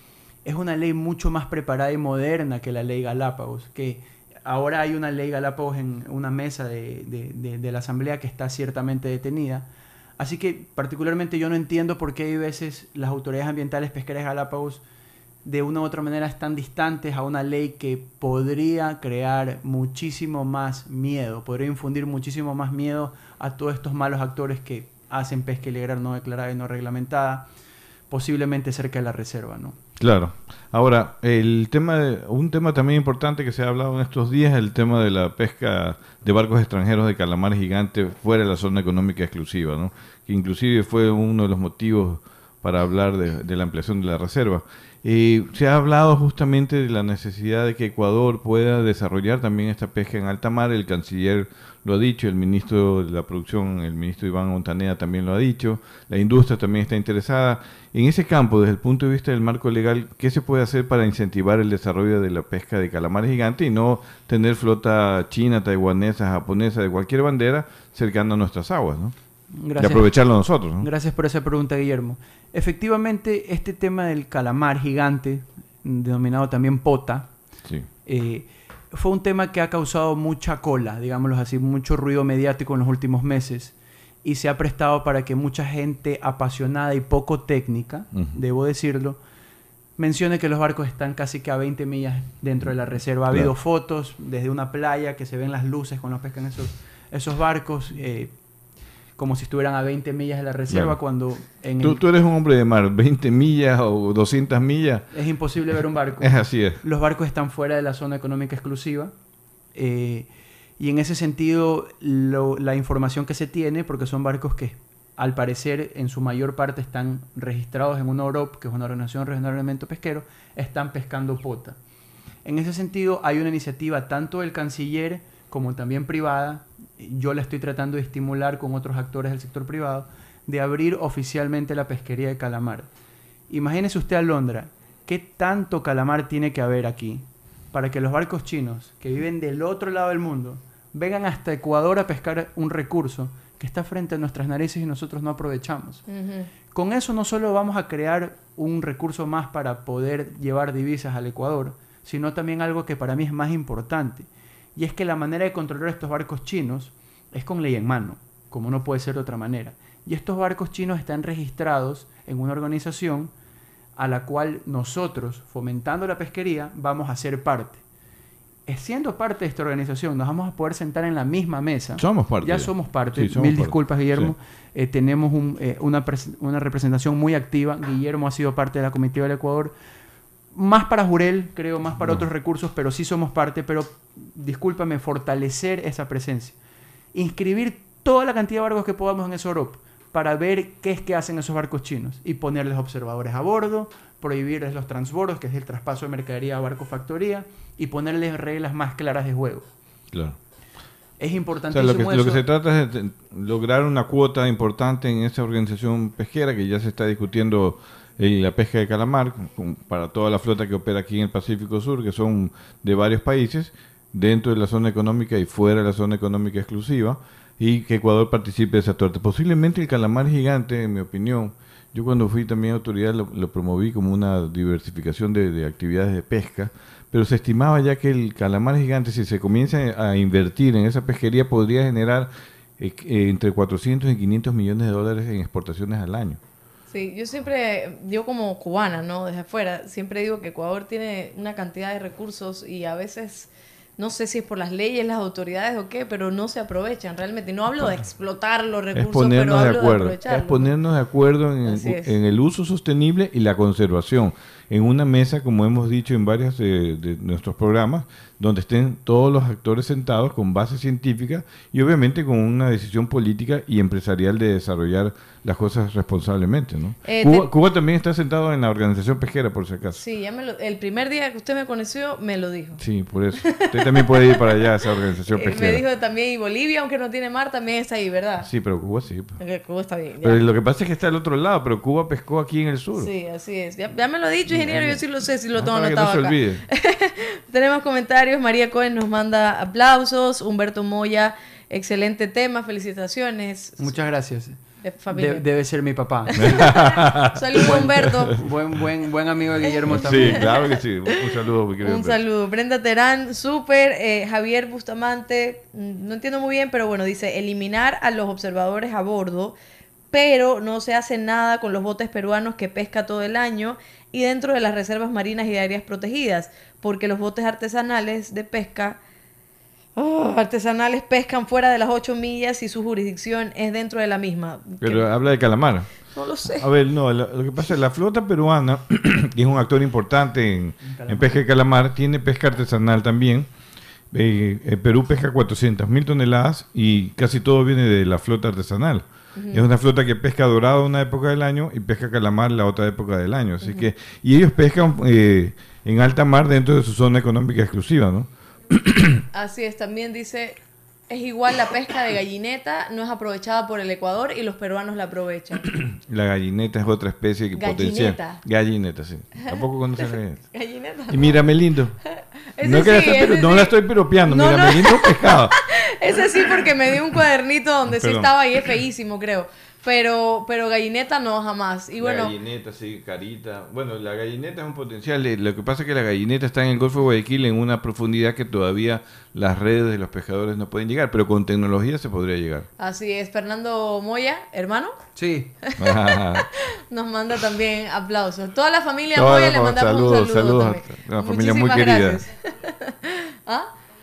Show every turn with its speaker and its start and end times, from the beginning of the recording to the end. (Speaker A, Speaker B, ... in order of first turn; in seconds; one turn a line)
Speaker A: 0.5-9.7
Speaker A: 10.2-14.8
Speaker A: 15.4-27.5
Speaker A: 28.1-29.8
Speaker B: 30.0-69.1
Speaker A: 69.6-70.1
Speaker B: 69.8-70.9
Speaker A: 70.8-77.3
Speaker A: 78.0-89.2
Speaker A: 90.0-98.3
Speaker A: 99.2-102.0
Speaker B: 100.7-101.0
Speaker B: 101.8-105.1
Speaker A: 105.1-109.1
Speaker B: 106.2-106.8
Speaker A: 109.7-110.3
Speaker A: 110.8-121.8
Speaker A: 122.5-132.9
Speaker A: 133.5-146.0
Speaker C: 146.1-146.5
Speaker A: 146.7-163.3
Speaker A: 164.0-167.8
Speaker A: 168.7-179.7
Speaker B: 172.0-174.3
Speaker A: 180.5-186.6
Speaker A: 187.1-199.7
Speaker B: 200.1-200.4
Speaker A: 201.2-202.4
Speaker B: 201.7-236.4
Speaker C: 236.9-250.7
Speaker B: 248.9-270.0
Speaker C: 251.6-252.1
Speaker C: 267.1-267.5
Speaker C: 269.9-272.8
Speaker B: 272.8-275.8
Speaker C: 273.4-274.7
Speaker C: 275.3-278.5
Speaker B: 278.4-279.4
Speaker C: 279.4-280.4
Speaker B: 280.2-283.1
Speaker C: 282.9-293.9
Speaker B: 284.5-286.6
Speaker A: 293.8-294.6
Speaker C: 294.8-295.4
Speaker A: 295.1-296.8
Speaker B: 296.4-298.1
Speaker C: 296.4-298.4
Speaker A: 297.6-300.5
Speaker C: 299.6-301.2
Speaker B: 299.9-302.2
Speaker C: 301.8-309.6
Speaker C: 310.1-319.0
Speaker C: 319.9-325.1
Speaker B: 324.8-325.9
Speaker C: 326.1-326.7
Speaker B: 326.4-333.5
Speaker A: 330.8-331.4
Speaker B: 334.1-349.2
Speaker C: 339.4-339.7
Speaker C: 343.6-343.9
Speaker C: 349.3-350.6
Speaker C: 351.1-355.6
Speaker B: 355.7-360.5
Speaker C: 357.6-358.4
Speaker C: 360.5-361.4
Speaker B: 361.1-362.0
Speaker C: 362.2-363.7
Speaker B: 362.6-365.6
Speaker C: 364.3-372.3
Speaker B: 367.9-368.6
Speaker B: 372.0-382.7
Speaker C: 382.8-385.0
Speaker A: 385.2-385.5
Speaker C: 385.7-386.2
Speaker B: 385.8-386.4
Speaker C: 386.9-393.7
Speaker B: 389.1-392.2